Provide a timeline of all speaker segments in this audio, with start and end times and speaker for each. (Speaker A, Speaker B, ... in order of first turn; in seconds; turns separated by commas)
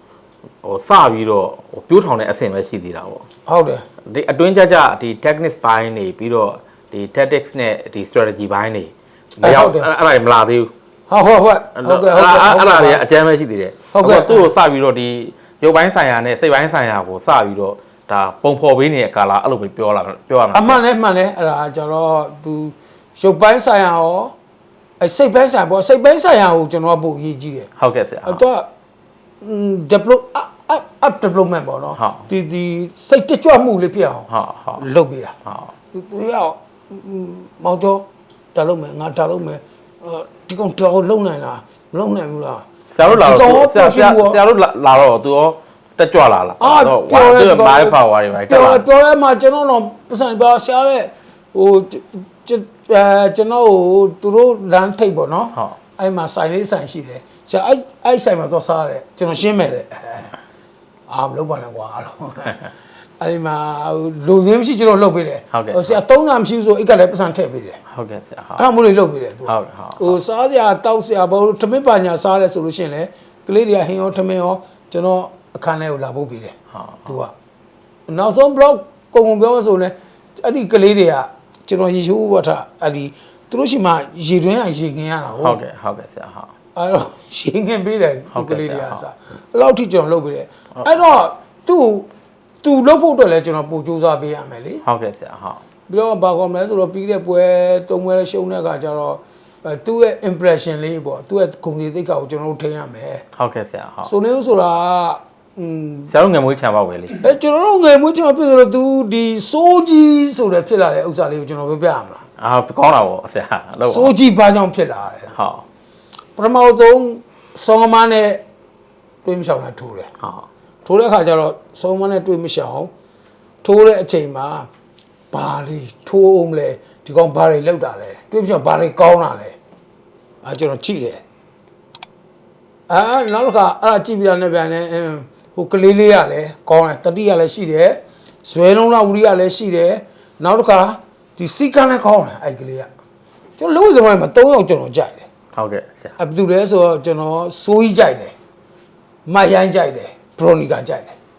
Speaker A: 0.6-3.3, Speaker B: 3.5-3.9, Speaker A: 4.1-10.7, Speaker B: 9.4-9.9, Speaker B: 11.1-13.0, Speaker A: 11.8-20.8, Speaker B: 13.9-14.5, Speaker B: 20.5-24.3, Speaker B: 25.0-27.7, Speaker A: 27.8-28.4, Speaker B: 28.2-28.7, Speaker B: 29.4-35.4, Speaker A: 32.0-32.3, Speaker A: 34.3-34.8, Speaker A: 35.5-35.7, Speaker B: 35.9-44.4, Speaker A: 42.9-48.9, Speaker B: 46.6-60.3, Speaker B: 61.1-62.7, Speaker B: 63.2-67.8, Speaker A: 65.5-66.0, Speaker A: 67.9-68.6, Speaker B: 68.6-76.5, Speaker A: 69.5-70.2, Speaker A: 76.8-77.0, Speaker B: 77.0-77.3, Speaker B: 78.1-85.6, Speaker A: 85.4-86.5, Speaker B: 86.8-92.1, Speaker A: 88.3-89.0, Speaker B: 92.6-94.8, Speaker A: 94.8-95.6, Speaker B: 95.9-103.2, Speaker A: 103.4-104.1, Speaker B: 104.0-106.1, Speaker A: 106.1-107.2, Speaker B: 107.2-112.2, Speaker A: 112.4-114.1, Speaker B: 113.8-115.3, Speaker A: 115.3-115.7, Speaker B: 116.4-118.4, Speaker B: 119.2-120.1, Speaker A: 120.2-120.5, Speaker B: 120.8-122.9, Speaker B: 123.6-124.7, Speaker B: 125.3-129.6, Speaker B: 130.4-131.2, Speaker B: 132.9-142.9, Speaker B: 143.6-145.3, Speaker A: 145.6-146.2, Speaker B: 146.2-148.3, Speaker B: 149.3-151.2